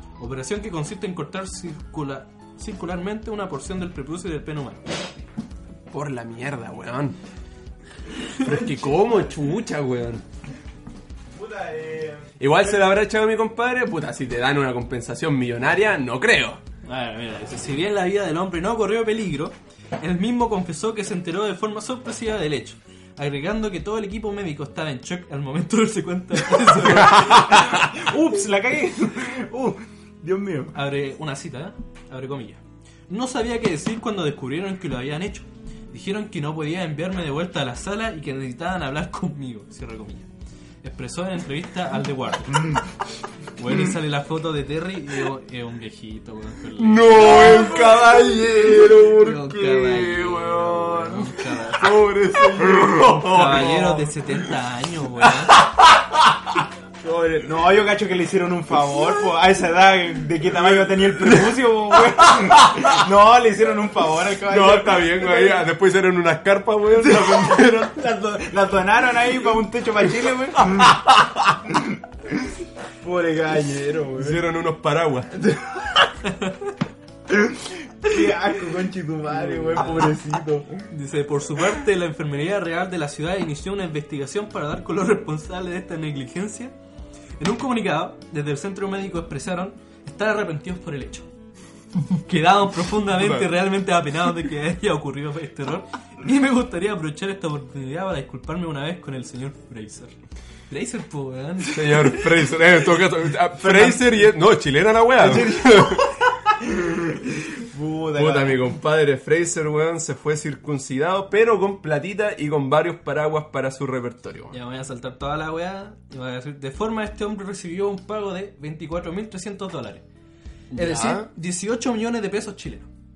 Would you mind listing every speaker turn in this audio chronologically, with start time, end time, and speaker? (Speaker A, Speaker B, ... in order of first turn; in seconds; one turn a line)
Speaker A: 0.2-4.9
Speaker B: 5.9-7.2
Speaker B: 8.4-10.2
Speaker C: 8.4-9.3
Speaker C: 11.3-13.0
Speaker B: 12.4-16.6
Speaker A: 16.9-27.7
Speaker B: 26.8-27.9
Speaker C: 27.1-30.8
Speaker A: 30.7-40.3
Speaker A: 40.8-42.8
Speaker A: 43.6-48.0
Speaker B: 46.8-54.5
Speaker A: 48.9-51.9
Speaker C: 52.2-53.2
Speaker A: 53.2-55.6
Speaker B: 55.2-56.6
Speaker C: 57.0-65.7
Speaker B: 60.5-61.6
Speaker B: 62.2-63.0
Speaker B: 64.5-67.9
Speaker C: 67.0-71.0
Speaker B: 70.7-71.1
Speaker C: 71.7-72.5
Speaker C: 73.0-74.4
Speaker B: 74.2-75.3
Speaker C: 75.4-76.0
Speaker A: 76.2-76.6
Speaker C: 77.3-80.8
Speaker A: 79.5-80.1
Speaker A: 80.9-86.8
Speaker A: 87.4-91.3
Speaker A: 92.0-100.1
Speaker B: 93.1-93.5
Speaker A: 100.7-102.3
Speaker B: 101.7-106.1
Speaker C: 103.6-104.1
Speaker C: 105.2-108.6
Speaker B: 108.2-114.6
Speaker A: 114.5-120.0
Speaker B: 120.7-121.3
Speaker A: 120.7-122.9